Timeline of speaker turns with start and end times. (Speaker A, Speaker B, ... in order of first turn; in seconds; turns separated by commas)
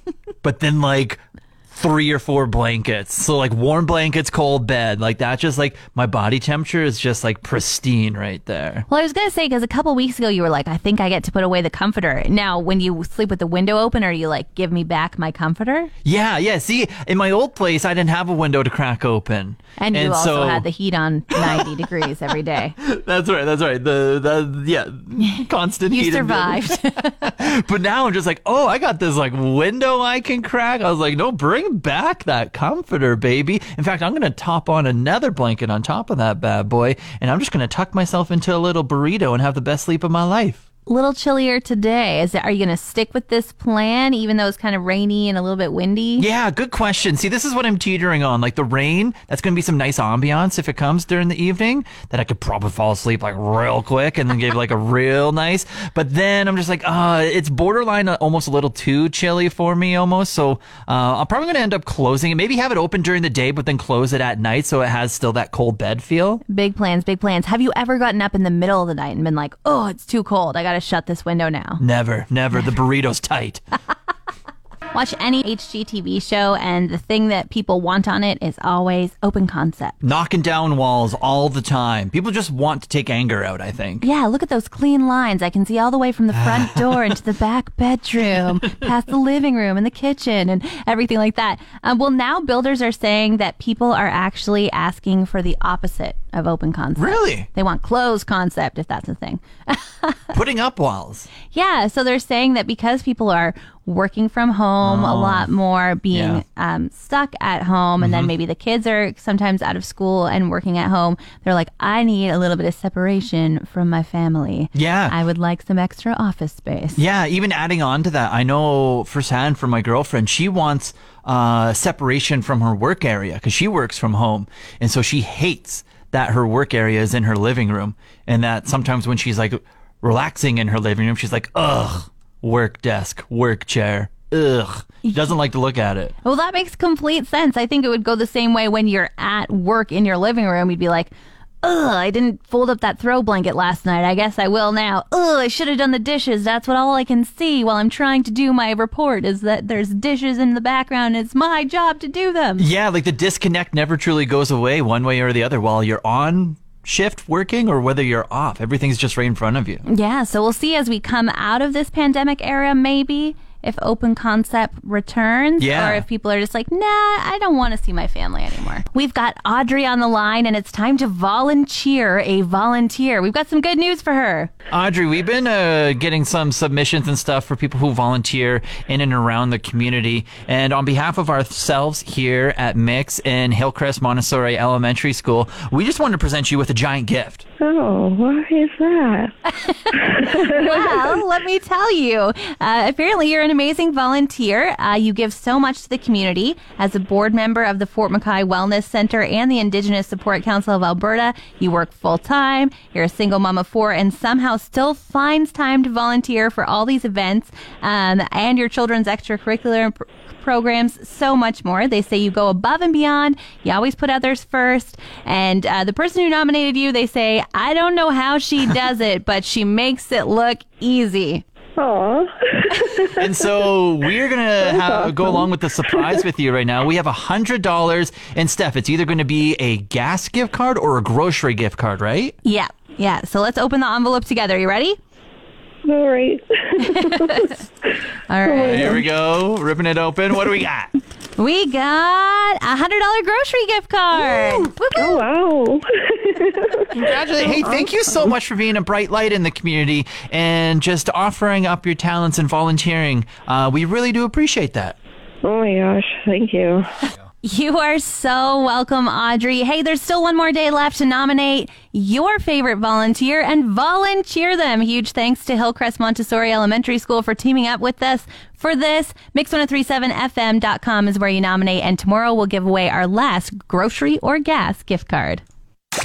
Speaker A: 0.4-8.8, Speaker B: 8.9-15.9, Speaker A: 16.0-20.7, Speaker B: 19.8-22.8, Speaker A: 21.4-21.7, Speaker A: 22.8-40.6, Speaker B: 25.2-27.1, Speaker B: 40.9-46.3, Speaker A: 46.2-66.4, Speaker B: 66.5-71.8, Speaker A: 71.8-73.6, Speaker B: 74.9-80.0, Speaker A: 80.0-84.1, Speaker B: 84.0-100.2, Speaker A: 86.3-87.0, Speaker A: 97.0-97.5, Speaker A: 100.3-101.3, Speaker B: 101.5-117.0, Speaker A: 104.8-105.5, Speaker A: 106.1-106.4, Speaker A: 108.0-108.3, Speaker A: 114.7-115.2, Speaker A: 117.0-136.1, Speaker B: 135.1-135.3, Speaker B: 136.2-141.1, Speaker B: 141.6-152.7, Speaker A: 152.6-159.8, Speaker B: 159.9-174.5, Speaker A: 165.6-166.1, Speaker A: 174.7-187.4, Speaker C: 187.6-189.3, Speaker B: 189.5-221.4, Speaker C: 190.0-191.1, Speaker C: 221.8-223.2, Speaker B: 222.7-223.1, Speaker A: 223.2-232.3, Speaker C: 224.7-225.1, Speaker B: 232.4-235.0, Speaker C: 235.8-237.5, Speaker B: 236.8-237.6, Speaker B: 238.3-239.0, Speaker C: 238.4-238.8, Speaker A: 238.5-240.9, Speaker B: 241.4-245.2, Speaker A: 244.1-244.7, Speaker C: 244.9-247.9, Speaker A: 246.9-255.0, Speaker C: 255.4-256.9, Speaker B: 257.4-275.4